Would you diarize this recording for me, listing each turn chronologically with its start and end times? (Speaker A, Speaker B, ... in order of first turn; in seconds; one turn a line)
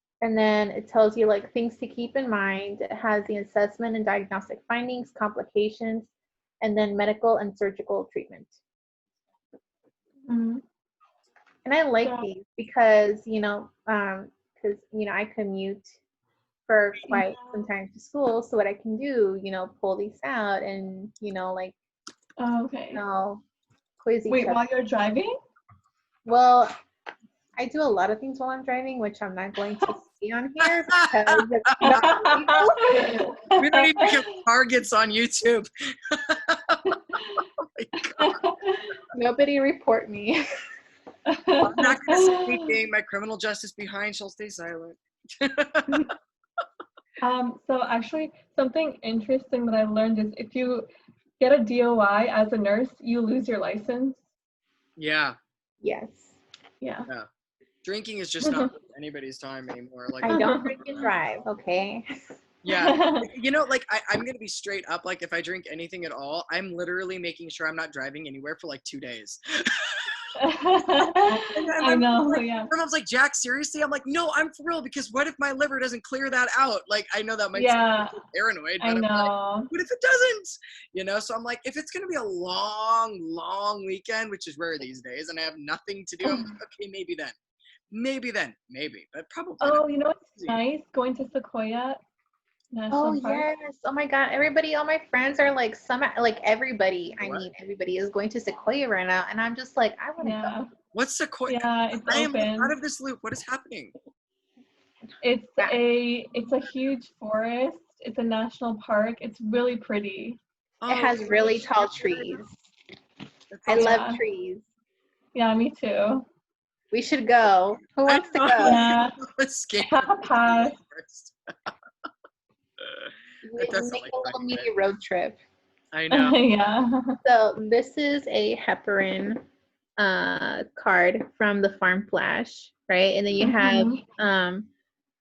Speaker A: 0.2-8.6
Speaker B: 10.3-10.6
Speaker A: 11.6-15.9
Speaker A: 16.7-21.7
Speaker B: 17.1-17.7
Speaker B: 22.4-23.0
Speaker A: 22.9-23.4
Speaker A: 24.0-24.6
Speaker B: 24.2-25.3
Speaker A: 26.2-26.7
Speaker A: 27.6-33.2
Speaker C: 31.0-32.1
Speaker B: 31.8-34.2
Speaker C: 33.6-36.8
Speaker B: 36.9-37.4
Speaker C: 37.6-38.4
Speaker B: 38.1-38.9
Speaker A: 39.1-40.4
Speaker B: 41.2-42.7
Speaker C: 41.6-46.1
Speaker B: 47.2-50.9
Speaker B: 51.4-54.2
Speaker C: 55.0-55.3
Speaker A: 55.8-56.4
Speaker B: 56.8-57.1
Speaker C: 57.8-60.4
Speaker B: 58.4-58.7
Speaker A: 60.2-62.0
Speaker B: 60.2-60.8
Speaker C: 62.6-70.2
Speaker B: 62.7-63.3
Speaker B: 70.4-72.7
Speaker C: 70.9-87.3
Speaker B: 77.5-78.2
Speaker B: 78.8-79.7
Speaker C: 87.9-89.8
Speaker B: 89.6-92.0
Speaker B: 92.7-93.5
Speaker A: 92.9-100.6
Speaker C: 97.2-97.5
Speaker B: 100.2-100.7
Speaker C: 100.9-103.9
Speaker B: 101.5-102.7
Speaker B: 105.2-110.4
Speaker C: 110.8-112.4
Speaker A: 110.9-112.5
Speaker C: 113.5-114.0
Speaker A: 113.7-114.7
Speaker B: 113.7-114.2
Speaker B: 115.3-116.2
Speaker A: 116.9-118.8
Speaker C: 118.0-121.7
Speaker B: 118.6-119.1
Speaker B: 119.8-120.8
Speaker C: 122.8-124.7
Speaker A: 123.4-125.4
Speaker C: 125.9-126.4
Speaker B: 126.1-127.2
Speaker A: 127.2-129.4
Speaker A: 130.0-134.7
Speaker B: 133.4-134.0